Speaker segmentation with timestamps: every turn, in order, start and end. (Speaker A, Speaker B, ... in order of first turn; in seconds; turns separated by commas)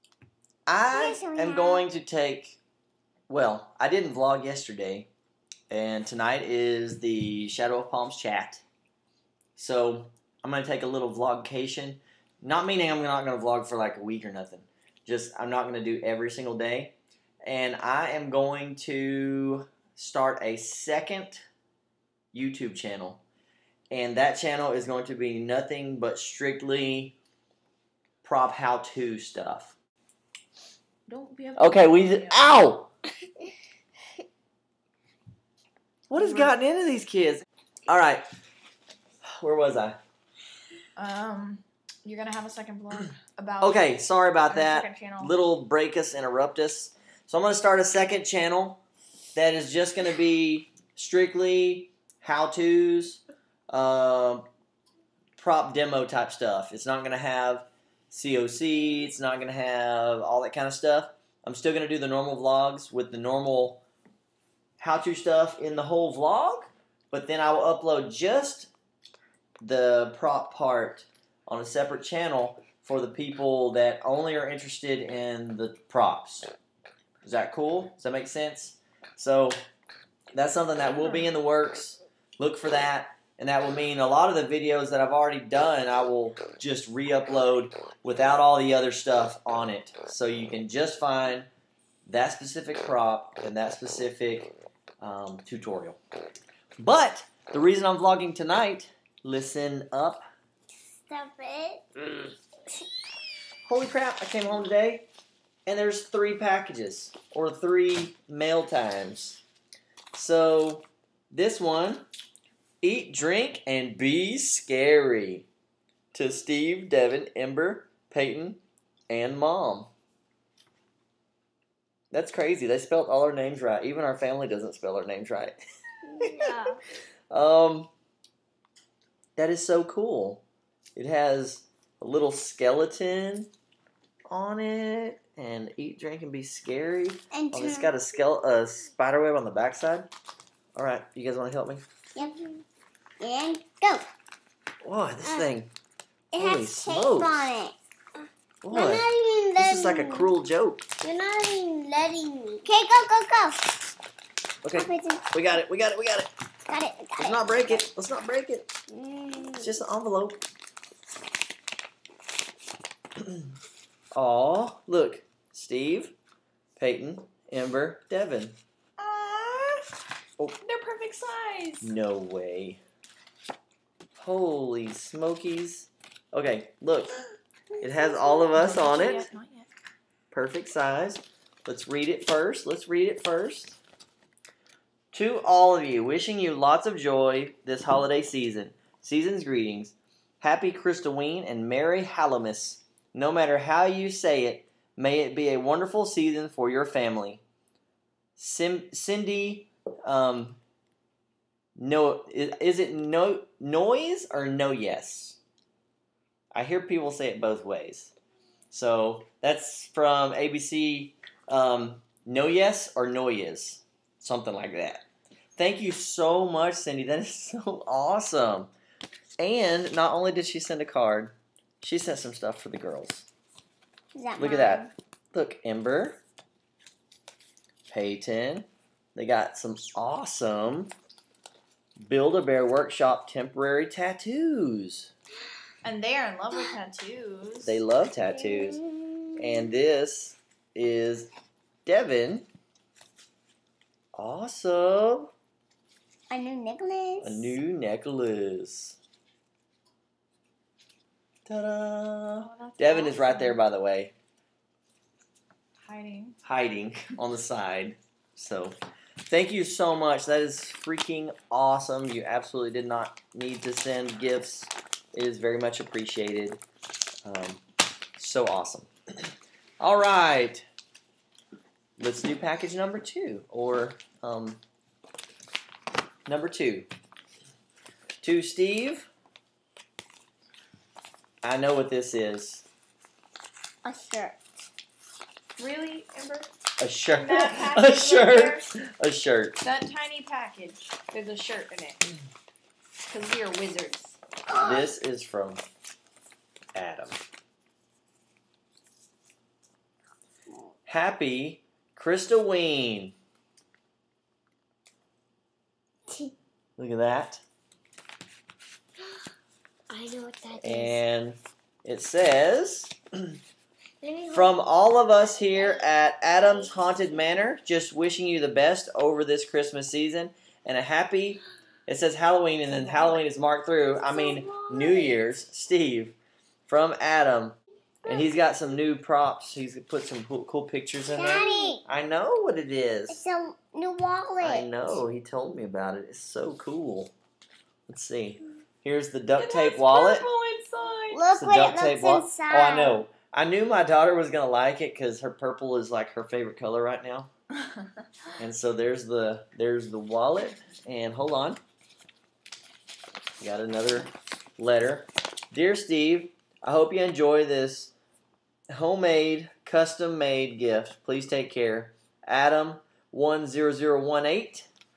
Speaker A: 0.7-2.6, Speaker B: 0.9-1.9, Speaker A: 3.3-5.1, Speaker A: 5.7-8.6, Speaker A: 9.6-21.4, Speaker A: 22.3-23.2, Speaker A: 23.9-27.1, Speaker A: 28.2-29.8, Speaker C: 31.1-32.7, Speaker A: 31.6-32.9, Speaker A: 36.1-38.2, Speaker A: 39.4-40.0, Speaker C: 41.0-43.8, Speaker A: 43.6-48.8, Speaker C: 44.5-45.3, Speaker A: 49.3-54.5, Speaker A: 55.4-63.8, Speaker A: 64.8-68.7, Speaker A: 69.6-76.5, Speaker A: 77.2-79.5, Speaker A: 80.3-91.5, Speaker A: 92.0-96.0, Speaker A: 96.8-100.2, Speaker B: 100.9-101.8, Speaker A: 103.7-105.0, Speaker A: 105.7-109.4, Speaker A: 110.1-112.0, Speaker A: 112.8-115.5, Speaker A: 116.1-119.9, Speaker A: 122.1-125.6, Speaker B: 126.1-126.5, Speaker A: 126.2-126.5, Speaker A: 127.3-127.9, Speaker A: 129.3-130.4, Speaker A: 130.9-133.5, Speaker A: 134.3-140.1, Speaker B: 137.3-137.9, Speaker A: 140.7-141.8, Speaker B: 142.1-142.6, Speaker B: 143.2-144.1, Speaker A: 144.8-145.7, Speaker B: 145.2-145.5, Speaker B: 146.3-147.8, Speaker A: 146.3-147.5, Speaker A: 148.6-150.9, Speaker B: 148.7-150.3, Speaker B: 151.0-153.8, Speaker A: 154.6-156.3, Speaker B: 154.7-155.3, Speaker B: 156.7-157.8, Speaker A: 157.2-158.7, Speaker B: 158.9-159.7, Speaker A: 159.6-160.4, Speaker A: 164.1-166.1, Speaker A: 166.8-168.6, Speaker C: 169.0-169.9, Speaker C: 170.6-171.9, Speaker A: 171.8-172.8, Speaker A: 174.2-177.2, Speaker A: 177.8-179.3, Speaker C: 178.5-179.7, Speaker A: 180.3-183.8, Speaker A: 185.1-197.4, Speaker A: 198.4-200.6, Speaker A: 201.8-205.4, Speaker A: 206.5-208.1, Speaker A: 208.7-215.0, Speaker A: 215.6-218.7, Speaker A: 219.4-223.3, Speaker B: 224.1-224.9, Speaker A: 224.4-226.2, Speaker A: 227.9-230.9, Speaker A: 232.0-235.1, Speaker C: 235.8-237.8, Speaker A: 237.6-238.8, Speaker B: 238.3-239.4, Speaker A: 239.4-241.3, Speaker A: 241.8-242.5, Speaker A: 244.1-245.3, Speaker B: 246.3-247.5, Speaker A: 247.2-249.0, Speaker A: 251.4-254.1, Speaker C: 252.4-253.6, Speaker C: 255.8-256.4, Speaker A: 256.4-266.6, Speaker A: 267.2-267.6, Speaker A: 268.2-268.9, Speaker A: 269.8-270.6, Speaker A: 272.0-274.6, Speaker A: 276.3-276.9, Speaker A: 278.2-279.1, Speaker A: 281.4-282.6, Speaker B: 283.8-284.4, Speaker C: 285.6-286.5, Speaker A: 286.8-289.6, Speaker C: 287.1-288.7, Speaker C: 289.6-292.1, Speaker C: 293.1-294.2, Speaker B: 294.5-294.9, Speaker A: 294.5-295.6, Speaker A: 296.7-297.2, Speaker A: 300.9-303.1, Speaker B: 306.1-306.3, Speaker A: 306.8-307.4, Speaker B: 309.9-311.0, Speaker A: 310.6-313.4, Speaker B: 314.0-314.6, Speaker A: 314.3-333.2, Speaker B: 315.4-317.2, Speaker B: 322.9-323.1, Speaker B: 323.9-325.2, Speaker B: 331.1-331.8, Speaker B: 333.1-334.7, Speaker A: 334.4-337.1, Speaker A: 337.9-340.3, Speaker C: 339.4-341.2, Speaker B: 341.1-343.0, Speaker A: 341.3-347.3, Speaker A: 348.4-351.6, Speaker A: 353.4-357.9, Speaker A: 358.7-364.7